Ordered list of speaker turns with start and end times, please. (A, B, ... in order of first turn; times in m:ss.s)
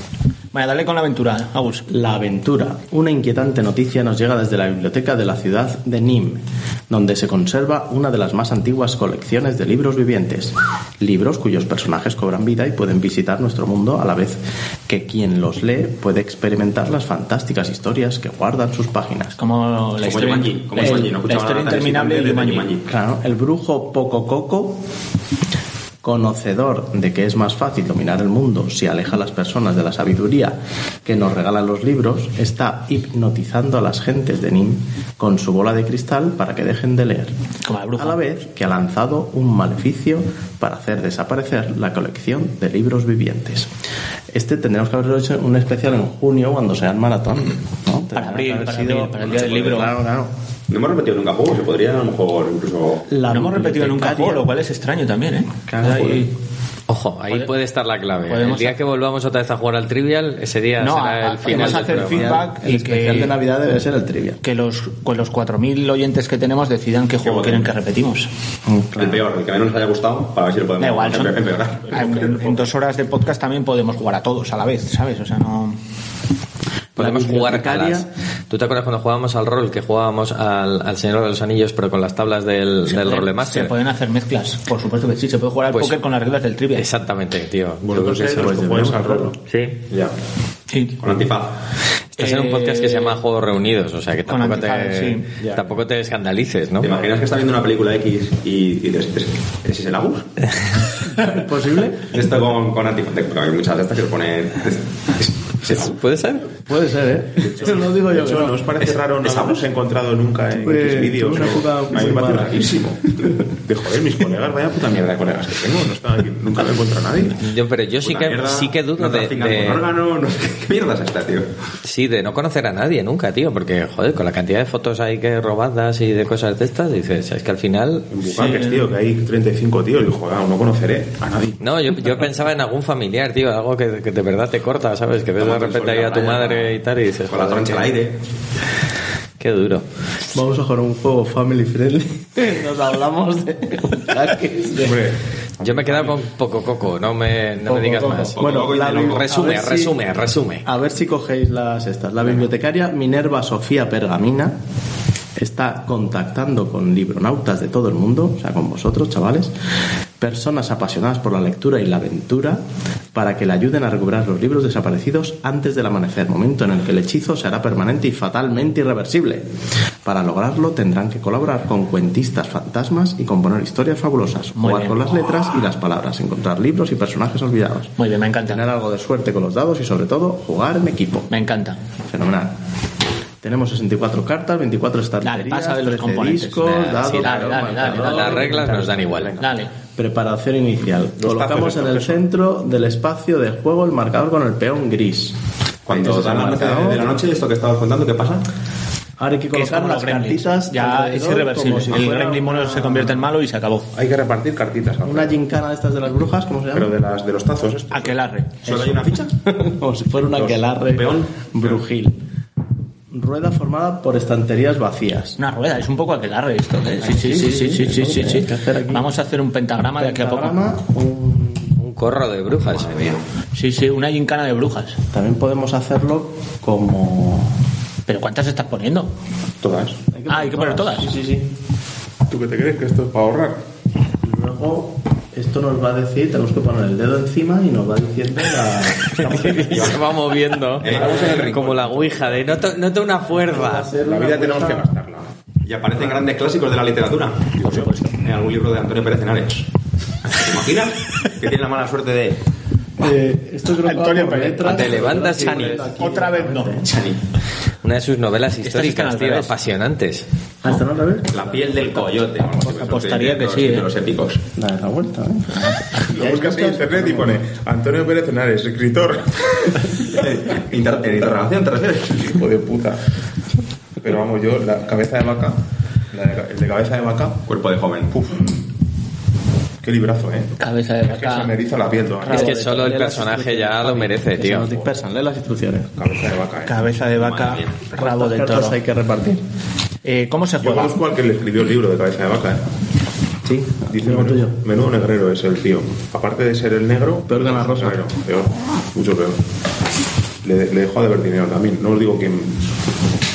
0:00.5-0:01.9 A
0:01.9-0:19.4 B
0:19.4-0:22.7 A
0:20.0-0:22.9 C
0:22.9-0:24.8 B
0:26.0-0:37.3 B
0:37.6-0:38.2 A
0:38.0-0:43.7 B
0:44.3-0:50.3 B
0:48.1-0:49.9 A
0:50.7-0:53.1 C
0:53.1-0:54.4 B
0:53.3-0:56.3 A
0:55.7-0:56.3 B
0:56.9-1:02.4 D
0:58.3-0:58.8 A
1:00.8-1:03.4 A
1:01.4-1:04.4 B
1:04.4-1:08.3 A
1:07.2-1:07.7 C
1:08.6-1:09.2 B
1:09.0-1:11.9 C
1:10.8-1:11.4 A
1:11.8-1:12.7 E
1:11.9-1:15.8 A
1:17.0-1:23.7 D
1:17.0-1:18.1 B
1:22.9-1:26.9 A
1:25.7-1:26.0 D
1:26.8-1:28.5 D
1:27.8-1:30.1 E
1:28.3-1:29.3 B
1:29.5-1:29.8 D
1:30.7-1:31.0 A
1:31.0-1:31.5 C
1:32.2-1:36.9 D
1:32.2-1:33.2 A
1:34.3-1:35.3 A
1:36.8-1:40.3 C
1:41.1-1:42.1 B
1:42.1-1:45.9 C
1:45.6-1:46.5 D
1:46.6-1:48.7 B
1:47.4-1:57.4 E
1:49.2-1:49.6 C
1:50.5-1:52.7 B
1:52.0-1:52.3 C
1:57.4-1:59.8 D
1:58.0-2:01.5 C
2:01.8-2:08.1 D
2:08.1-2:11.6 E
2:08.3-2:08.9 A
2:11.6-2:17.7 D
2:15.4-2:18.2 C
2:19.4-2:19.8 D
2:20.3-2:25.1 B
2:24.8-2:26.2 E
2:25.6-2:28.4 D
2:27.6-2:30.0 B
2:28.4-2:29.3 C
2:28.9-2:30.6 D
2:30.6-2:34.6 B
2:35.4-2:39.5 B
2:40.2-2:42.6 B
2:43.1-2:49.4 B
2:50.0-2:58.0 B
2:54.6-2:55.1 A
2:58.0-2:58.6 A
2:58.5-3:01.3 B
3:01.3-3:01.8 A
3:02.0-3:02.6 B
3:03.4-3:17.1 B
3:05.2-3:08.7 A
3:06.7-3:09.4 D
3:09.4-3:09.7 A
3:11.2-3:12.2 E
3:15.9-3:18.4 C
3:19.2-3:23.3 B
3:19.5-3:23.9 A
3:23.9-3:25.4 E
3:25.0-3:26.9 B
3:26.7-3:28.2 E
3:27.9-3:28.6 A
3:28.6-3:29.3 C
3:28.7-3:32.1 B
3:30.3-3:31.8 C
3:33.1-3:35.4 B
3:35.4-3:40.6 A
3:37.0-3:39.1 B
3:39.9-3:41.9 B
3:41.9-3:42.9 D
3:42.7-3:43.2 C
3:43.5-3:45.0 A
3:45.1-3:47.6 B
3:48.1-3:49.1 A
3:49.6-3:50.0 E
3:50.1-3:51.5 B
3:50.3-3:51.1 A
3:52.3-3:53.6 E
3:54.2-3:59.8 B
3:59.1-4:03.9 D
3:59.7-4:00.0 C
4:00.8-4:02.0 C
4:00.9-4:01.4 B
4:00.9-4:02.5 E
4:03.3-4:04.9 B
4:04.0-4:05.3 E
4:05.6-4:09.7 C
4:07.6-4:08.1 E
4:10.3-4:12.4 C
4:13.0-4:16.9 B
4:13.8-4:14.8 A
4:14.6-4:15.8 D
4:15.4-4:15.8 C
4:15.8-4:16.8 A
4:16.8-4:17.2 C
4:17.8-4:20.2 D
4:18.6-4:19.6 A
4:20.6-4:22.3 B
4:21.3-4:24.4 C
4:22.7-4:23.9 A
4:24.6-4:27.4 B
4:26.1-4:31.3 E
4:30.1-4:32.2 C
4:32.1-4:33.0 E
4:34.0-4:35.6 E
4:36.1-4:37.4 E
4:37.5-4:38.1 C
4:38.1-4:38.6 E
4:39.8-4:42.5 E
4:40.6-4:41.5 A
4:42.2-4:42.8 A
4:42.3-4:45.9 B
4:42.3-4:44.8 D
4:46.0-4:46.9 E
4:46.6-4:48.8 A
4:47.1-4:47.8 C
4:48.0-4:49.4 B
4:50.0-4:51.0 A
4:50.6-4:52.6 E
4:53.4-4:54.6 B
4:53.9-4:59.4 E
4:57.3-4:58.0 B
5:00.4-5:02.6 E